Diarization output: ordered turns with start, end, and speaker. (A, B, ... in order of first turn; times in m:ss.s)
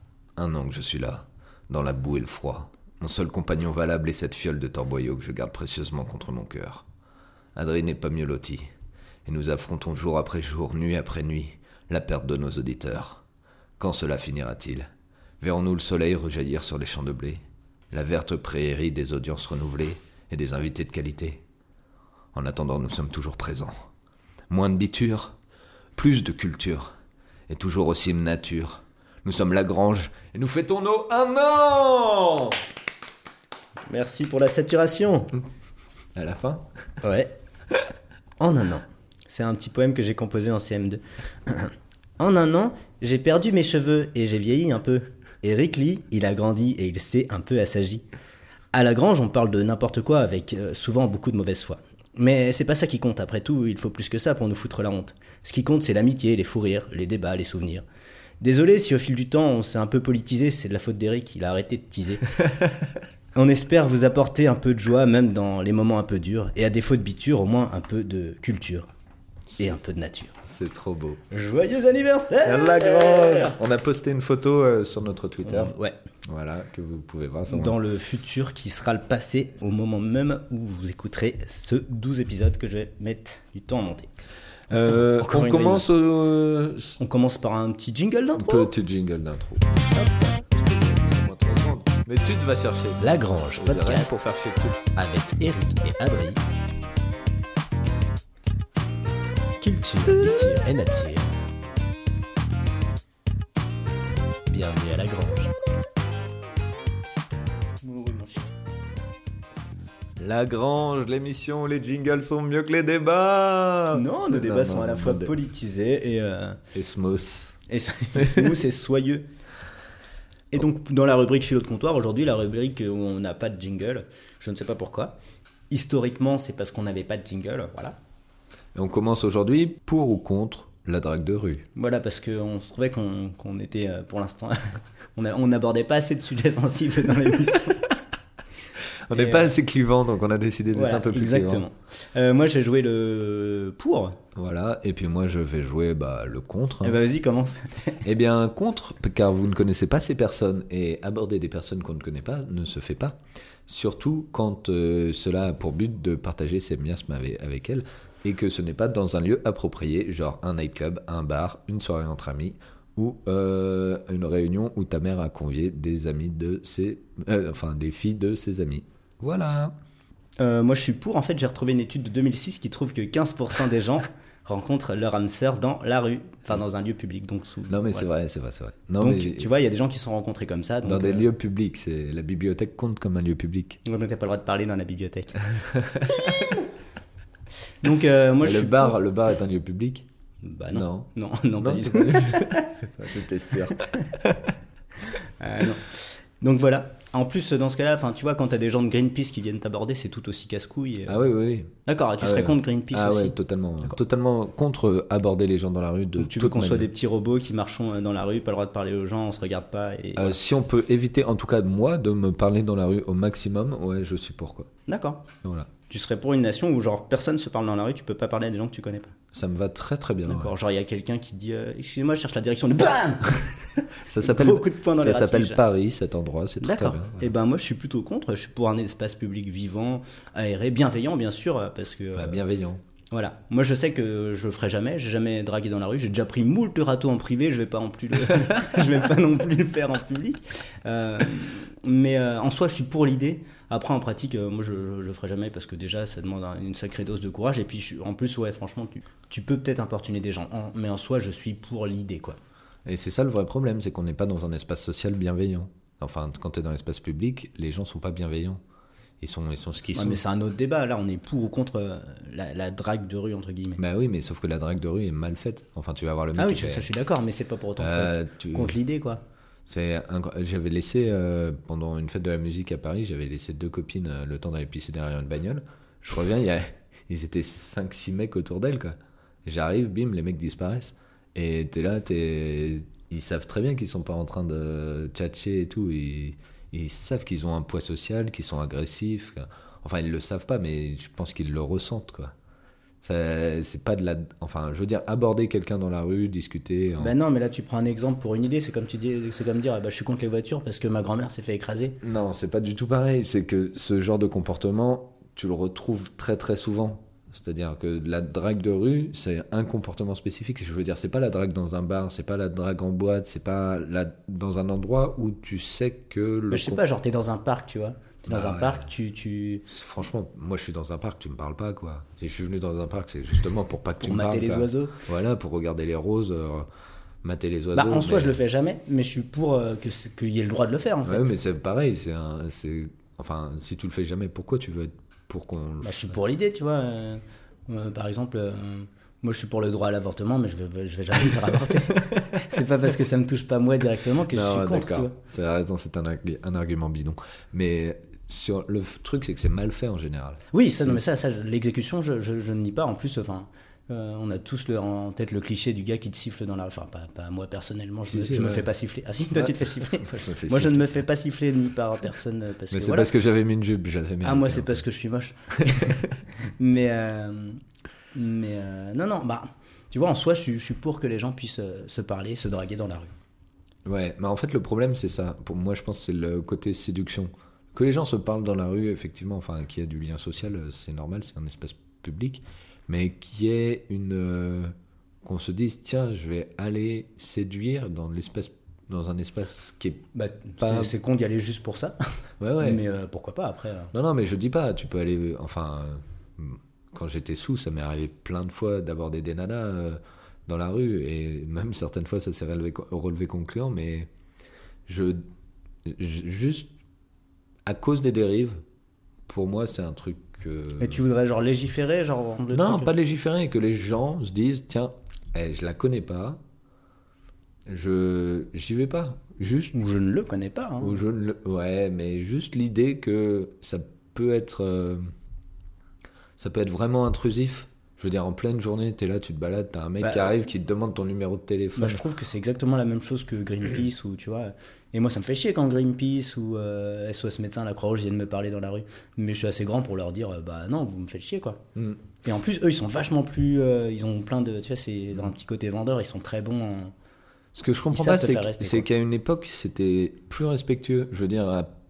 0:00.4-0:06.9 A
0:07.6-0:08.7 A
0:09.3-0:13.2 A
0:13.8-0:14.9 A
0:15.4-0:21.4 A
0:22.3-0:23.7 A
0:24.5-0:25.4 A
0:26.0-0:26.9 A
0:27.5-0:32.6 A
0:33.9-0:35.3 B
0:36.2-0:36.7 A
0:37.0-0:37.3 B
0:38.4-0:48.0 B
0:48.7-0:57.8 B
0:58.4-1:02.2 B
1:02.4-1:02.8 A
1:03.4-1:08.9 B
1:09.5-1:09.9 A
1:09.6-1:10.3 B
1:10.4-1:11.2 A
1:11.3-1:13.5 B
1:12.4-1:15.8 A
1:15.4-1:16.0 B
1:16.3-1:17.8 A
1:17.5-1:24.1 B
1:24.7-1:27.0 A
1:24.7-1:25.8 B
1:27.0-1:28.7 B
1:28.4-1:34.8 A
1:33.0-1:34.2 B
1:35.0-1:36.4 B
1:39.6-1:41.3 B
1:44.5-1:45.5 B
1:47.8-1:48.5 B
1:50.2-1:55.4 A
1:53.9-1:56.6 B
1:56.7-1:57.6 A
1:57.7-1:59.3 B
2:00.5-2:05.2 B
2:05.7-2:08.0 B
2:08.8-2:11.7 A
2:11.8-2:14.6 B
2:15.2-2:17.9 B
2:19.1-2:21.6 A
2:19.1-2:19.5 B
2:20.7-2:24.2 B
2:24.4-2:27.0 A
2:26.8-2:28.0 B
2:28.0-2:49.7 A
2:50.4-2:58.1 B
2:57.7-2:59.5 A
2:59.0-3:01.3 B
3:00.8-3:03.8 A
3:03.8-3:05.5 B
3:05.7-3:06.3 A
3:06.3-3:06.6 B
3:07.8-3:09.0 B
3:08.4-3:10.1 A
3:10.4-3:12.7 B
3:10.7-3:14.4 A
3:15.1-3:21.2 B
3:21.1-3:26.9 A
3:21.9-3:23.4 B
3:26.2-3:30.4 B
3:30.2-3:34.7 A
3:34.9-3:35.2 B
3:35.4-3:35.7 A
3:35.9-3:39.1 B
3:39.3-3:40.5 A
3:40.3-3:45.6 B
3:44.0-3:47.3 A
3:46.6-3:52.4 B
3:52.2-3:52.8 A
3:53.1-4:12.4 B
4:12.9-4:18.6 A
4:19.2-4:20.2 A
4:20.0-4:23.8 B
4:23.8-4:26.9 A
4:26.4-4:29.2 B
4:27.8-4:28.8 A
4:29.7-4:52.3 A
4:53.0-4:57.2 A
4:57.0-5:02.0 B
5:02.0-5:16.8 A
5:16.5-5:19.7 B
5:18.3-5:18.9 A
5:19.7-5:26.7 A
5:24.0-5:25.0 B
5:27.2-5:28.4 A
5:27.7-5:31.3 B
5:31.0-5:36.2 A
5:35.8-5:45.1 B
5:42.0-5:42.4 A
5:44.3-5:51.0 A
5:50.5-6:03.1 B
5:58.1-5:58.7 A
5:59.3-6:01.0 A
6:02.7-6:04.8 A
6:04.2-6:06.0 B
6:06.6-6:07.6 B
6:08.1-6:13.1 B
6:13.9-6:24.7 A
6:25.2-6:30.0 A
6:30.1-6:32.0 B
6:30.6-6:30.9 A
6:32.4-6:32.8 A
6:32.6-6:33.9 B
6:33.9-6:44.1 A
6:44.9-6:45.2 A
6:45.9-6:46.7 A
6:47.7-6:48.6 A
6:49.3-6:51.0 A
6:50.8-6:52.9 B
6:52.5-6:56.4 A
6:57.7-6:59.7 A
6:59.7-7:01.0 B
7:00.8-7:05.1 A
7:06.4-7:12.0 A
7:10.0-7:10.3 B
7:11.8-7:21.6 B
7:21.8-7:22.0 A
7:22.2-7:26.9 B
7:27.6-7:31.7 A
7:27.9-7:28.9 B